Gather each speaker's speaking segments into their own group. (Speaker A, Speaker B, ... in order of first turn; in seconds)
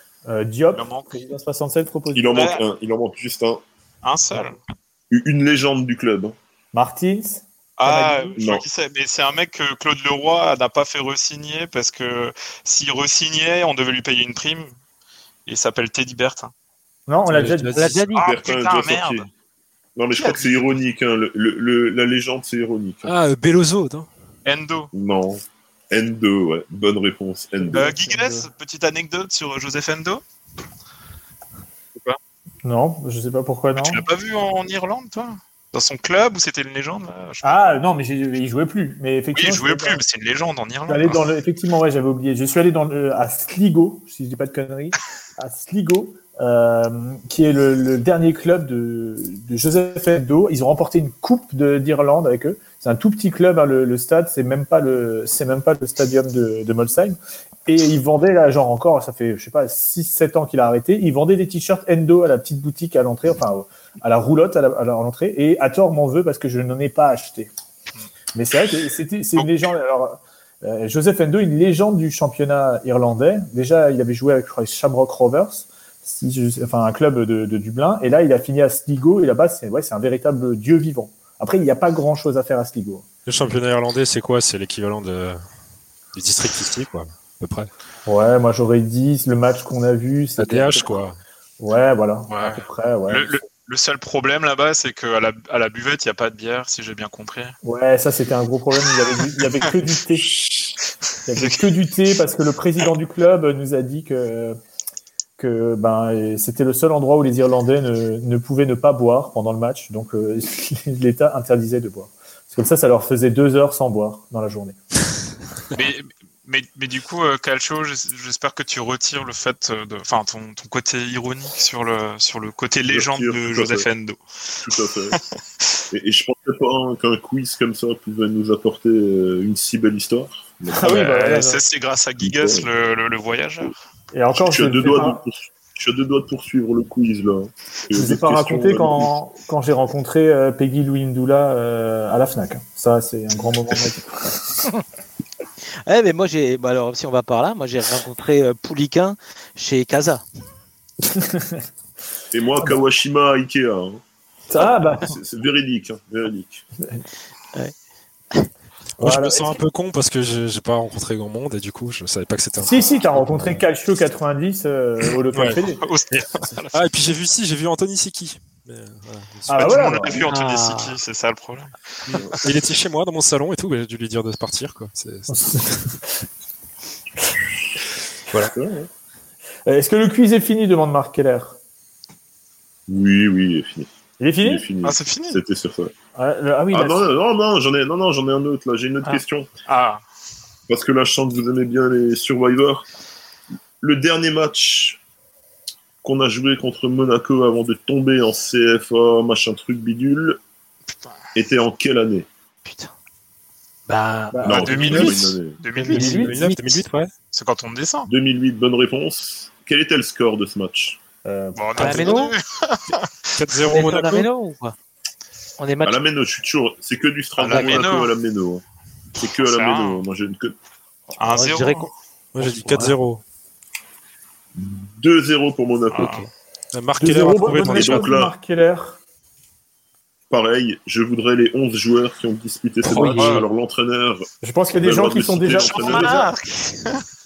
Speaker A: 0.3-2.4, 6.7-8.3, 17.1-17.8, 27.6-28.5, 32.6-34.0, 37.4-40.0, 40.9-67.5, 68.3-83.1, 88.1-91.0, 91.6-93.4, 97.6-100.4, 101.3-104.6, 105.4-114.8, 130.7-131.6, 134.1-135.2, 137.9-144.5, 151.0-151.7, 154.5-155.2, 159.0-159.6, 162.6-165.8, 169.5-170.2, 175.3-176.1, 179.7-181.6, 184.2-184.7, 186.2-187.1, 204.3-205.2, 205.9-206.3, 211.2-212.3, 227.0-229.0, 234.4-236.3
Speaker B: 0.7-1.2, 2.3-2.6, 4.0-4.6, 7.8-14.7, 15.5-16.5, 18.2-19.3, 20.1-20.8, 24.4-24.9, 27.7-30.2, 33.8-37.8, 39.3-41.2, 69.4-69.6, 92.3-97.6, 98.8-99.7, 101.3-101.8, 115.7-124.2, 130.8-133.8, 165.8-166.8, 169.5-171.7, 184.8-185.4, 189.0-190.0, 204.7-206.3, 207.3-208.1, 211.6-213.1, 217.4-218.2, 219.3-220.1, 221.2-222.8, 225.9-226.2, 235.6-237.0
Speaker C: 2.1-3.6, 5.1-6.4, 8.4-8.7, 18.2-19.3, 20.0-23.1, 24.9-27.9, 122.9-123.9, 124.6-125.3, 125.9-131.3, 132.2-132.7, 134.3-139.1, 152.3-154.0, 155.0-156.7, 178.5-178.9, 182.9-183.9, 184.4-185.9, 186.7-189.5, 190.7-192.9, 193.8-195.0, 196.0-200.4, 201.3-202.3, 204.4-205.6, 208.1-211.0, 215.8-218.6, 219.2-220.6, 224.6-226.1, 227.6-228.3, 230.3-236.3
Speaker D: 17.3-18.1, 23.1-24.1, 83.3-85.4, 86.1-87.7, 90.4-91.2, 159.0-162.7, 165.3-165.6, 166.1-170.0, 172.1-175.8, 205.8-207.1, 213.4-214.3, 222.3-223.2, 226.7-228.1
Speaker E: 17.7-18.3, 145.9-150.2, 170.3-171.0, 202.7-202.9, 203.9-204.6, 205.8-206.8, 211.8-212.3, 213.7-214.8, 215.6-216.0, 221.2-221.9, 222.4-222.9, 232.9-233.3